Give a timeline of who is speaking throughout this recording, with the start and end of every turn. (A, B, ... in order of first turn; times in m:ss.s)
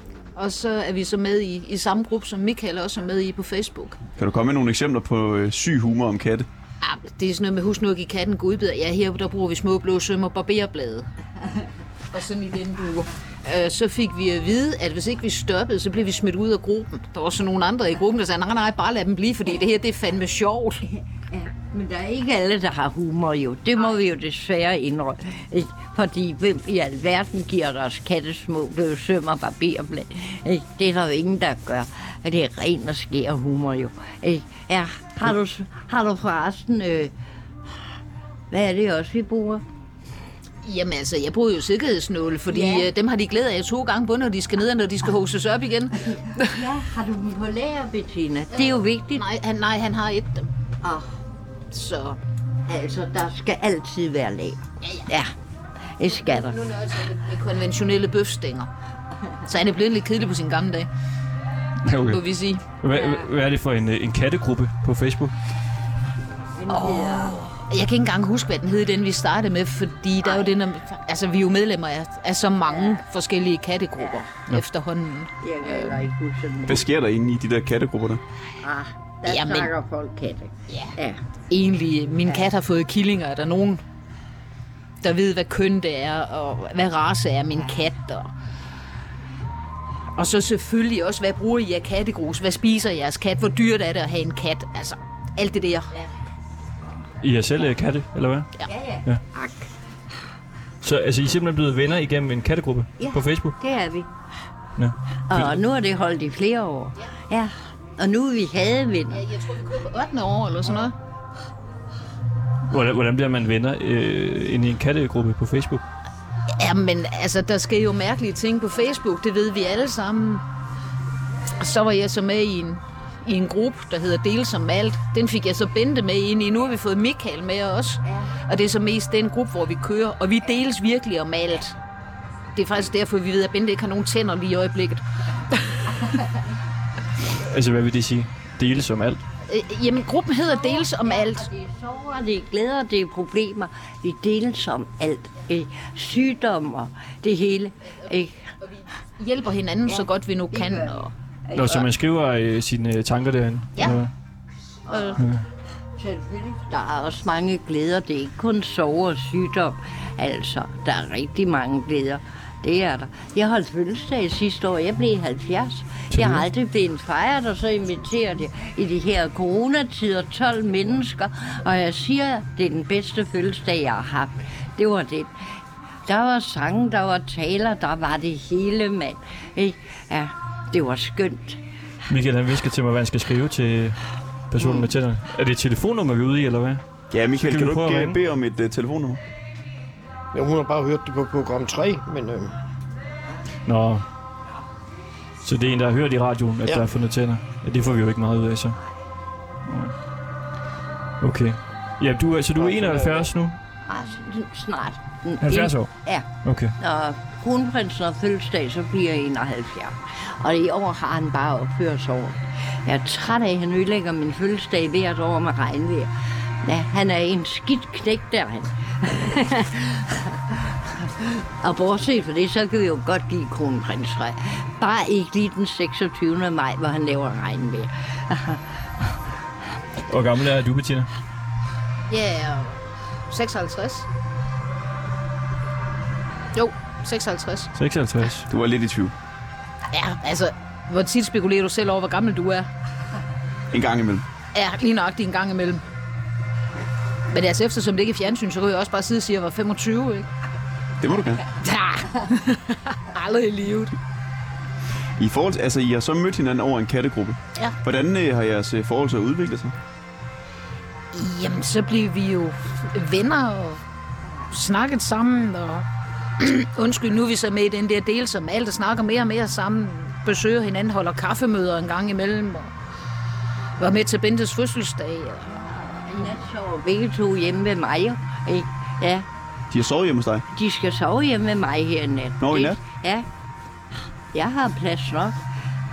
0:00.4-0:04.0 A
0:04.2-0:06.5 B
0:06.8-0:11.1 A
0:12.1-0:20.9 A
0:21.3-0:37.1 C
0:38.5-0:39.6 C
0:40.6-0:46.5 A
0:42.5-0:42.9 C
0:46.4-0:49.2 C
0:48.6-0:50.5 A
0:50.8-0:51.1 C
0:51.7-0:52.2 A
0:52.7-0:55.3 C
0:56.0-0:56.6 C
0:56.2-0:58.7 A
0:59.4-1:00.9 A
1:01.9-1:02.2 D
1:02.0-1:02.6 A
1:02.8-1:05.3 D
1:02.9-1:03.2 C
1:06.6-1:07.4 C
1:06.7-1:16.0 A
1:10.2-1:10.5 C
1:12.7-1:13.0 C
1:14.0-1:14.2 C
1:15.4-1:16.8 C
1:16.7-1:18.2 B
1:18.6-1:21.2 C
1:19.3-1:19.7 A
1:21.5-1:23.8 A
1:25.0-1:28.3 A
1:30.2-1:35.9 A
1:37.2-1:38.5 D
1:38.6-1:39.7 C
1:40.8-1:43.6 D
1:43.0-1:44.1 C
1:44.8-1:45.6 D
1:45.3-1:49.2 C
1:49.1-1:50.9 A
1:52.7-1:55.8 D
1:56.6-2:00.4 A
2:01.6-2:11.8 A
2:12.6-2:15.0 A
2:17.4-2:19.2 D
2:19.5-2:21.5 A
2:20.5-2:28.4 C
2:29.2-2:31.1 A
2:29.9-2:31.9 C
2:31.5-2:34.1 D
2:34.9-2:35.2 C
2:35.2-2:35.4 D
2:36.0-3:01.6 C
2:46.1-2:46.4 D
3:02.1-3:04.0 D
3:04.5-3:06.8 D
3:07.1-3:09.2 B
3:07.4-3:08.2 D
3:10.3-3:12.5 E
3:13.7-3:14.0 D
3:15.4-3:18.8 D
3:19.7-3:19.9 D
3:21.2-3:23.6 D
3:22.6-3:23.3 E
3:23.8-3:26.3 C
3:25.4-3:25.9 D
3:26.4-3:26.8 D
3:26.8-3:48.6 C
3:50.1-3:51.1 D
3:52.1-3:52.8 A
3:53.3-3:54.1 A
3:56.6-3:57.7 A
3:57.8-3:58.5 D
3:58.5-3:59.1 B
3:59.9-4:02.7 A
4:03.7-4:04.2 B
4:04.5-4:05.8 A
4:07.3-4:10.3 A
4:11.0-4:11.5 B
4:11.6-4:14.0 A
4:15.2-4:19.8 B
4:21.1-4:23.8 A
4:24.5-4:25.9 A
4:26.4-4:32.7 A
4:33.8-4:35.6 A
4:35.6-4:39.3 C
4:39.7-4:40.5 B
4:40.5-4:43.3 C
4:42.4-4:42.8 B
4:44.3-4:45.4 C